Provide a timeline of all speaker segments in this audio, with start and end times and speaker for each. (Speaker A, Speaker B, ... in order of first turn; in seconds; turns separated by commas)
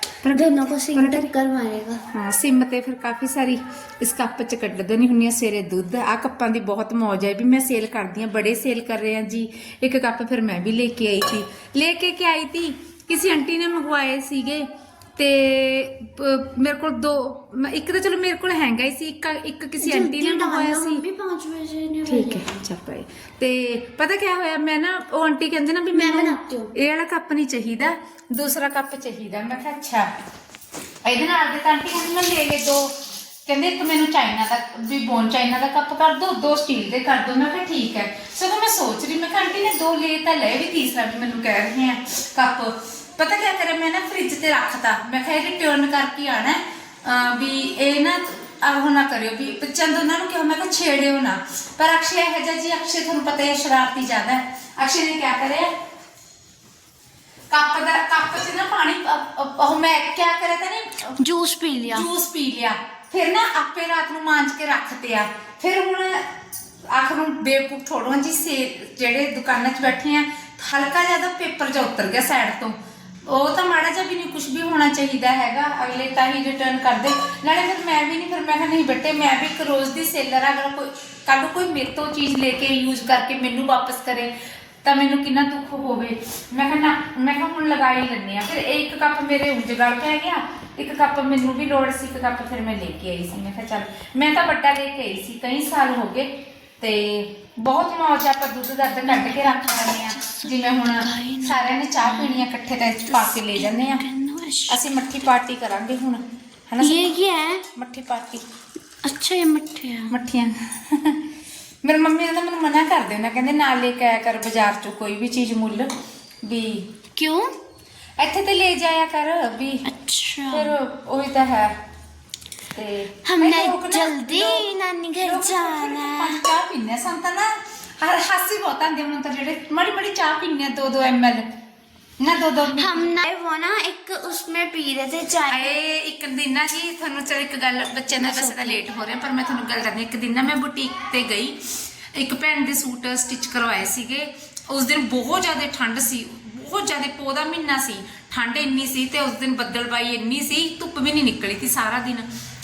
Speaker A: 0.2-1.3, Speaker B: 0.3-2.0, Speaker A: 2.1-21.0, Speaker B: 19.8-22.7, Speaker A: 22.1-30.1, Speaker B: 25.9-26.7, Speaker A: 31.0-32.9, Speaker A: 33.5-55.7, Speaker A: 57.5-61.2, Speaker B: 61.2-62.1, Speaker A: 61.9-66.3, Speaker A: 66.9-104.1, Speaker B: 99.0-102.5, Speaker B: 103.1-104.9, Speaker A: 104.7-107.1, Speaker B: 106.8-107.7, Speaker A: 107.8-108.4, Speaker B: 109.0-110.1, Speaker A: 110.1-111.3, Speaker A: 111.8-116.9, Speaker B: 117.2-117.6, Speaker A: 118.2-119.9, Speaker B: 119.8-120.8, Speaker A: 120.5-121.8, Speaker A: 122.7-124.7, Speaker B: 123.2-126.5, Speaker A: 125.2-131.5, Speaker A: 132.2-133.1, Speaker B: 132.7-135.8, Speaker A: 135.5-152.3, Speaker B: 138.1-138.8